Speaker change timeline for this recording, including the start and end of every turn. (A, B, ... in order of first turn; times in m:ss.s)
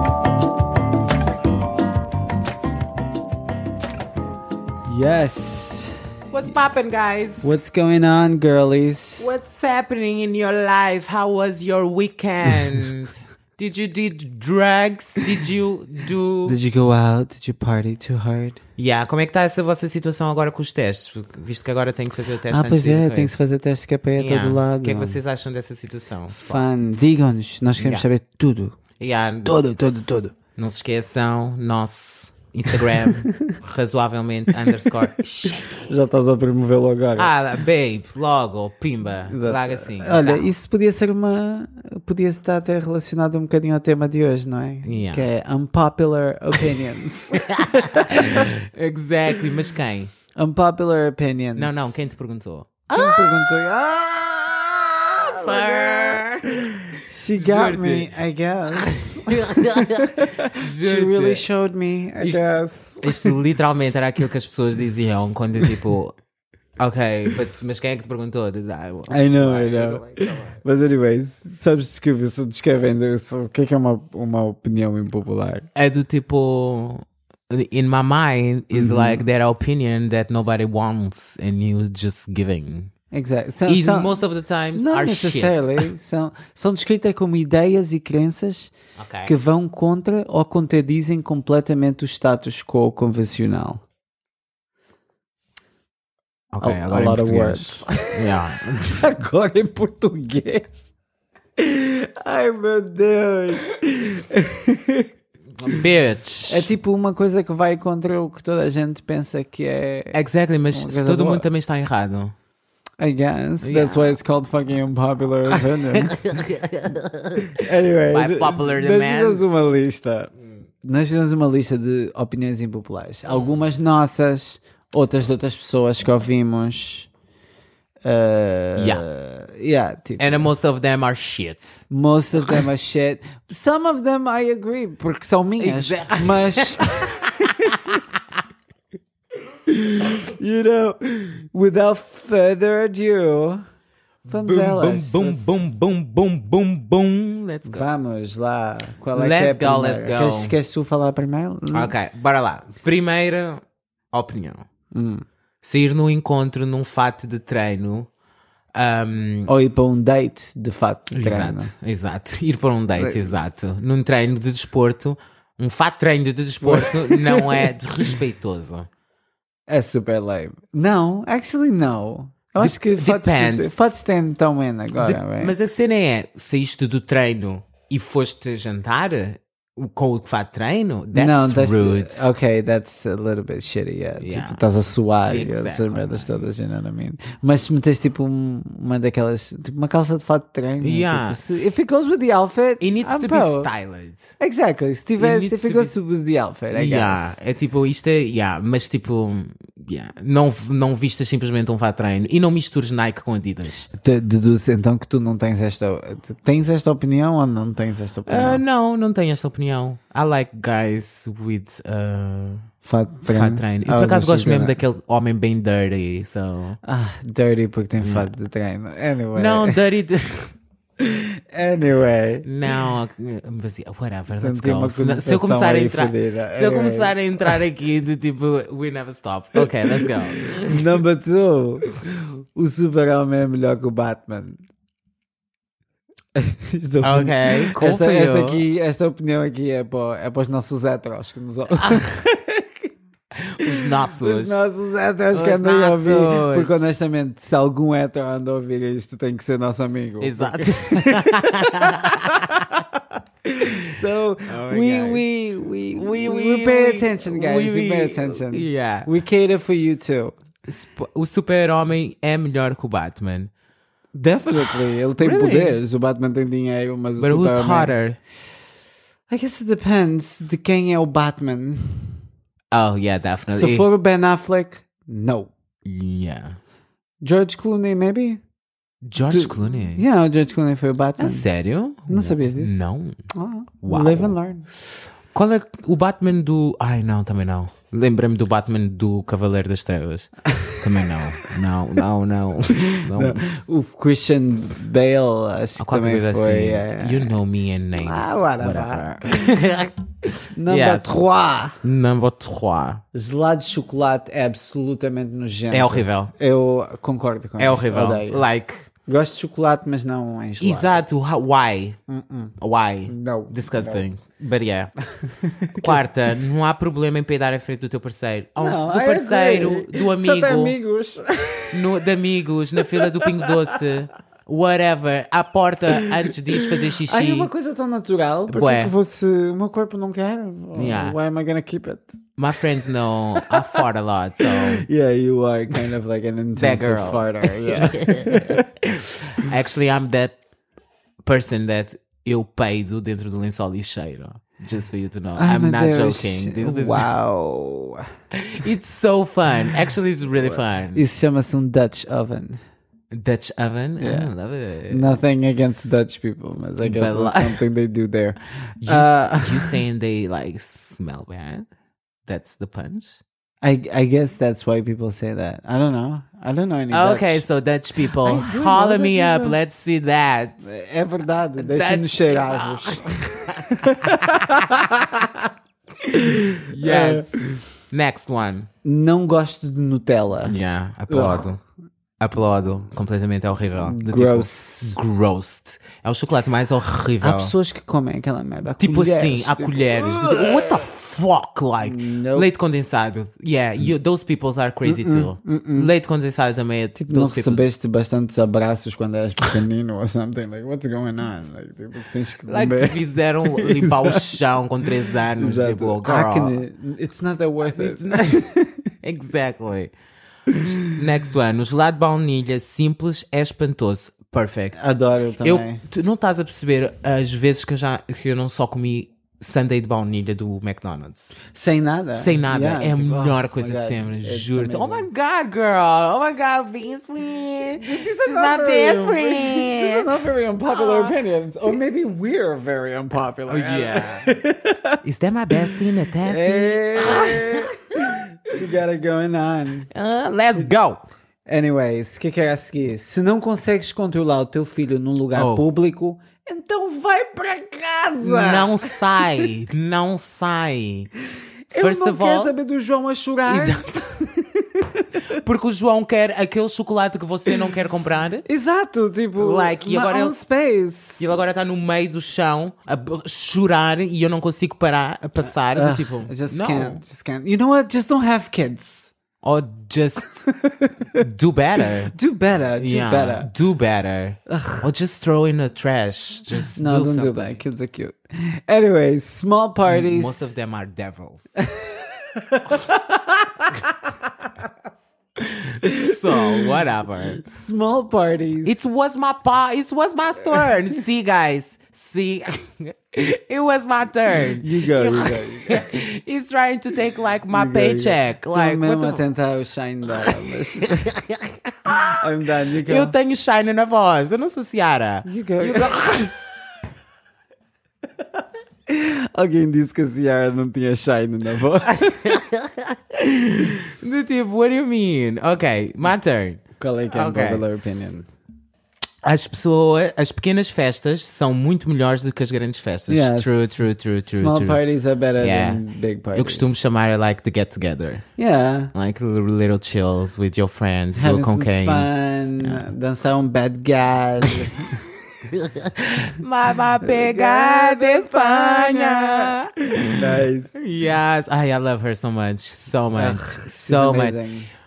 0:04.8-0:06.0 A
0:06.3-0:07.5 B
0:07.4-0:09.3 A
0:09.2-0:16.6 B
0:16.4-0:18.6 A
0:18.8-0:23.4 B
0:22.5-0:25.2 A
0:24.2-0:26.6 B
0:26.4-0:28.8 A
0:27.8-0:28.0 B
0:29.0-0:29.6 B
0:29.4-0:30.3 A
0:30.5-0:35.9 B
0:32.7-0:33.6 A
0:35.7-0:37.3 A
0:37.2-0:40.5 B
0:39.3-0:48.5 A
0:44.8-0:45.3 B
0:47.3-0:50.1 B
0:50.3-0:52.0 A
0:51.6-0:53.5 B
0:52.9-1:03.4 A
0:55.4-0:56.7 B
0:57.3-0:58.1 B
0:58.7-1:01.4 B
1:03.0-1:06.2 B
1:06.8-1:10.6 B
1:09.1-1:15.7 A
1:15.7-1:22.9 B
1:18.7-1:19.2 A
1:23.1-1:24.2 A
1:23.6-1:25.9 B
1:24.7-1:28.7 A
1:29.0-1:29.3 B
1:29.2-1:33.8 A
1:36.5-1:39.0 B
1:36.6-1:38.1 A
1:38.9-1:40.9 A
1:41.6-1:45.1 A
1:45.5-1:46.7 B
1:46.5-1:50.2 A
1:50.1-1:52.3 B
1:50.7-1:51.5 A
1:53.0-1:56.4 A
1:53.6-1:54.2 B
1:55.5-1:59.4 B
1:57.4-2:00.3 A
2:00.8-2:07.1 A
2:03.3-2:03.6 B
2:08.0-2:10.5 A
2:08.8-2:09.0 B
2:10.2-2:11.8 B
2:11.9-2:18.0 A
2:15.6-2:18.0 B
2:19.5-2:23.6 A
2:24.2-2:27.8 B
2:24.3-2:25.7 A
2:27.6-2:31.9 A
2:29.1-2:30.5 B
2:31.7-2:34.7 B
2:34.9-2:35.2 A
2:35.6-2:38.1 B
2:38.7-2:39.5 B
2:39.5-2:41.7 A
2:41.1-2:48.9 B
2:42.9-2:43.4 A
2:46.6-2:47.7 A
2:49.7-2:55.5 A
2:52.6-2:53.7 B
2:55.0-3:02.2 B
3:01.1-3:13.7 A
3:04.2-3:04.6 B
3:05.3-3:06.5 B
3:10.8-3:11.4 B
3:12.8-3:14.3 B
3:14.4-3:17.4 A
3:15.2-3:15.9 B
3:16.7-3:23.9 B
3:23.9-3:28.6 A
3:28.3-3:32.7 B
3:32.8-3:34.8 A
3:33.2-3:36.8 B
3:36.8-3:39.8 A
3:38.0-3:38.3 B
3:39.3-3:40.5 B
3:41.0-3:42.5 A
3:42.4-3:50.8 B
3:44.3-3:47.6 A
3:49.6-3:52.0 A
3:52.5-3:54.6 A
3:56.3-4:02.9 A
3:57.0-3:58.6 B
4:03.5-4:04.7 B
4:03.6-4:13.0 A
4:05.3-4:06.9 B
4:10.2-4:12.6 B
4:13.5-4:20.4 A
4:14.5-4:15.2 B
4:15.9-4:19.1 B
4:20.7-4:23.5 B
4:24.1-4:27.9 A
4:25.2-4:25.8 B
4:27.2-4:28.2 B
4:29.3-4:32.2 A
4:32.7-4:33.8 B
4:33.5-4:35.5 A
4:35.8-4:36.6 B
4:37.2-4:38.4 A
4:39.0-4:40.0 B
4:39.3-4:41.5 A
4:41.2-4:43.2 B
4:42.1-4:42.8 A
4:43.3-4:44.7 A
4:43.8-4:53.4 B
4:50.5-4:51.4 A
4:52.8-4:57.4 A
4:55.8-5:00.0 B
4:57.9-4:59.2 A
5:00.5-5:01.8 A
5:00.7-5:01.1 B
5:01.8-5:03.0 B
5:03.1-5:08.4 A
5:05.7-5:06.3 B
5:07.6-5:08.9 B
5:09.0-5:11.0 A
5:10.6-5:12.0 B
5:12.1-5:12.5 A
5:12.6-5:14.9 B
5:13.0-5:14.1 A
5:15.2-5:16.1 A
5:15.8-5:20.8 B
5:18.6-5:22.1 A
5:21.7-5:27.5 B
5:22.8-5:23.9 A
5:25.9-5:32.6 A
5:28.5-5:28.9 B
5:30.7-5:31.2 B
5:32.4-5:34.8 B
5:33.4-5:33.8 A
5:34.4-5:39.5 A
5:36.6-5:38.6 B
5:39.3-5:40.4 B
5:41.2-5:47.1 B
5:45.4-5:48.0 A
5:48.3-5:51.0 B
5:50.4-5:52.6 A
5:53.1-5:55.2 B
5:54.0-5:54.3 A
5:54.9-5:59.8 A
5:56.8-5:57.6 B
5:58.8-6:01.7 B
6:02.2-6:03.2 B
6:03.6-6:07.4 A
6:06.9-6:10.6 B
6:08.0-6:09.6 A
6:10.6-6:15.5 A
6:11.6-6:14.7 B
6:16.0-6:17.6 A
6:16.7-6:18.7 B
6:18.8-6:20.6 A
6:20.5-6:21.6 B
6:21.1-6:21.6 A
6:22.2-6:27.5 B
6:23.8-6:25.0 A
6:27.2-6:30.9 A
6:28.8-6:37.6 B
6:31.8-6:32.5 A
6:34.8-6:35.9 A
6:37.0-6:48.8 A
6:42.5-6:46.6 B
6:47.6-6:48.4 B
6:49.0-6:49.9 B
6:50.5-6:51.0 A
6:50.7-6:54.9 B
6:54.7-6:55.8 A
6:55.4-7:01.3 B
7:01.5-7:05.1 A
7:02.1-7:10.1 B
7:07.8-7:15.0 A
7:10.7-7:11.1 B
7:13.5-7:14.3 B
7:15.0-7:17.7 B
7:15.6-7:19.9 A
7:19.9-7:21.0 B
7:21.4-7:29.3 A
7:25.3-7:25.6 B
7:28.2-7:31.1 B
7:31.7-7:35.3 A
7:31.7-7:32.5 B
7:33.5-7:34.0 B
7:35.3-7:38.4 B
7:38.4-7:41.4 A
7:39.4-7:40.3 B
7:41.2-7:47.0 B
7:45.5-7:49.1 A
7:49.4-7:50.3 B
7:50.2-7:51.2 A
7:51.2-7:52.1 B
7:52.1-7:53.5 A
7:52.8-7:57.6 B
7:54.5-7:54.9 A
7:56.8-8:00.5 A
7:59.9-8:01.5 B
8:01.6-8:03.9 A
8:05.4-8:07.4 B
8:05.8-8:06.7 A
8:07.3-8:09.0 A
8:08.6-8:19.2 B
8:14.6-8:15.9 A
8:17.5-8:21.1 A
8:20.2-8:22.2 B
8:22.0-8:23.1 A
8:22.8-8:26.3 B
8:25.2-8:26.4 A
8:28.9-8:32.4 A
8:31.9-8:37.6 B
8:36.8-8:38.3 A
8:39.2-8:44.8 B
8:43.1-8:46.7 A
8:45.4-8:45.8 B
8:46.3-8:48.2 B
8:48.4-8:48.9 A
8:48.9-8:52.1 B
8:51.2-8:55.0 A
8:52.6-8:52.9 B
8:55.5-9:04.4 B
8:57.0-9:00.7 A
9:03.1-9:04.7 A